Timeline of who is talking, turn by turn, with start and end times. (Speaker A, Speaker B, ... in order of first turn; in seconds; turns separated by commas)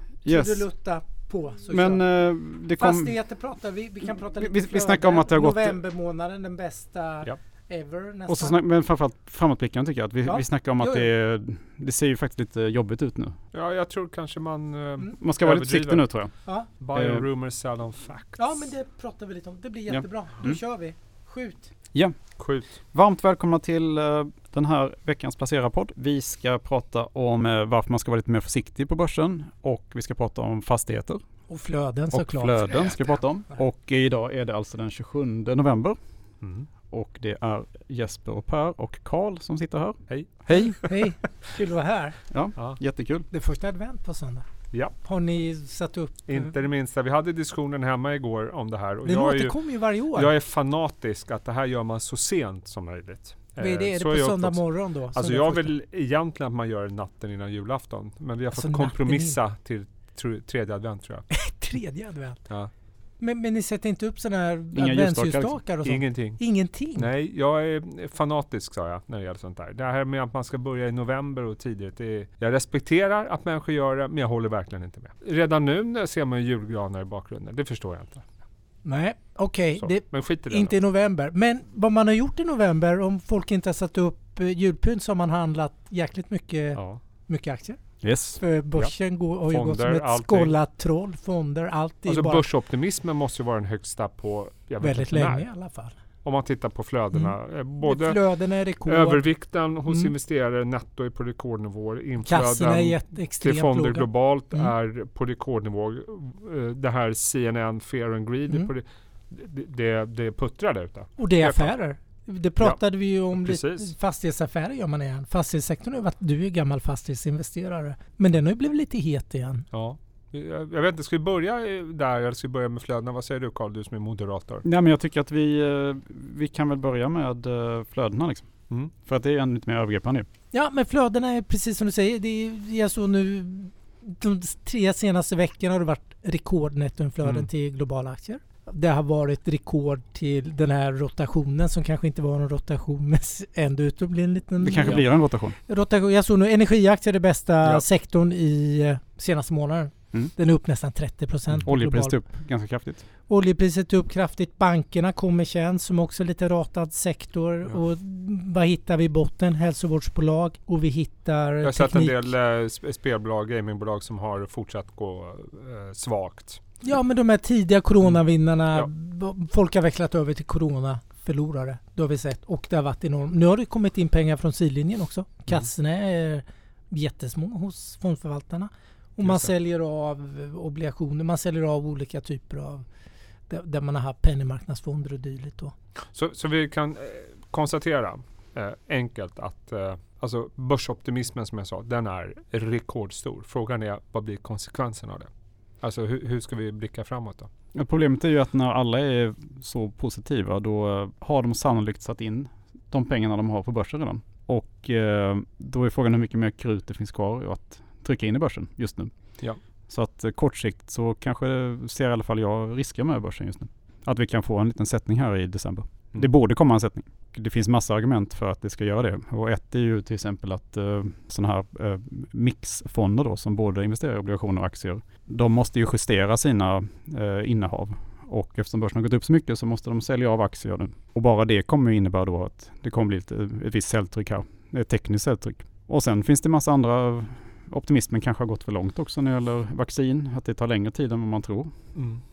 Speaker A: 0.2-0.7, Speaker B: 0.2-2.0, Speaker A: 1.7-3.1, Speaker B: 2.8-8.6, Speaker A: 4.3-5.8, Speaker A: 8.3-13.4, Speaker B: 10.2-11.1, Speaker C: 13.5-16.1, Speaker A: 15.2-16.3, Speaker C: 16.8-18.7, Speaker A: 16.9-17.2, Speaker B: 18.4-21.7, Speaker A: 19.9-20.6, Speaker C: 22.4-22.7, Speaker A: 22.9-31.2, Speaker B: 31.5-32.9, Speaker A: 32.1-36.0, Speaker C: 36.4-36.7, Speaker A: 36.9-40.8, Speaker C: 40.1-40.9, Speaker B: 40.5-42.2, Speaker A: 42.3-43.3, Speaker B: 43.3-44.5, Speaker B: 45.0-46.5, Speaker C: 46.3-49.6, Speaker B: 49.0-50.3, Speaker C: 50.1-61.3, Speaker B: 53.6-55.7, Speaker B: 58.6-59.4, Speaker B: 61.3-62.4, Speaker B: 63.2-67.1, Speaker A: 64.7-65.6, Speaker C: 65.8-66.4, Speaker C: 67.0-78.2, Speaker B: 78.8-87.8, Speaker C: 79.8-80.8, Speaker A: 88.0-88.4, Speaker B: 88.4-92.5, Speaker C: 89.5-90.6, Speaker C: 92.1-95.5, Speaker B: 94.8-96.0, Speaker C: 96.2-98.2, Speaker B: 97.1-99.2, Speaker C: 98.8-111.7, Speaker B: 102.2-104.7, Speaker B: 111.2-119.7, Speaker C: 113.4-113.9, Speaker C: 119.7-124.7, Speaker A: 124.6-128.5, Speaker A: 129.0-130.3, Speaker B: 130.5-145.1, Speaker A: 144.6-145.6, Speaker B: 145.7-152.2, Speaker A: 151.7-153.0, Speaker B: 153.3-162.2, Speaker C: 161.6-166.6, Speaker B: 166.8-182.8, Speaker C: 179.2-179.5, Speaker B: 183.5-185.7, Speaker C: 186.1-195.3, Speaker C: 195.8-197.5, Speaker A: 197.7-209.1, Speaker A: 209.9-241.8, Speaker C: 241.9-242.2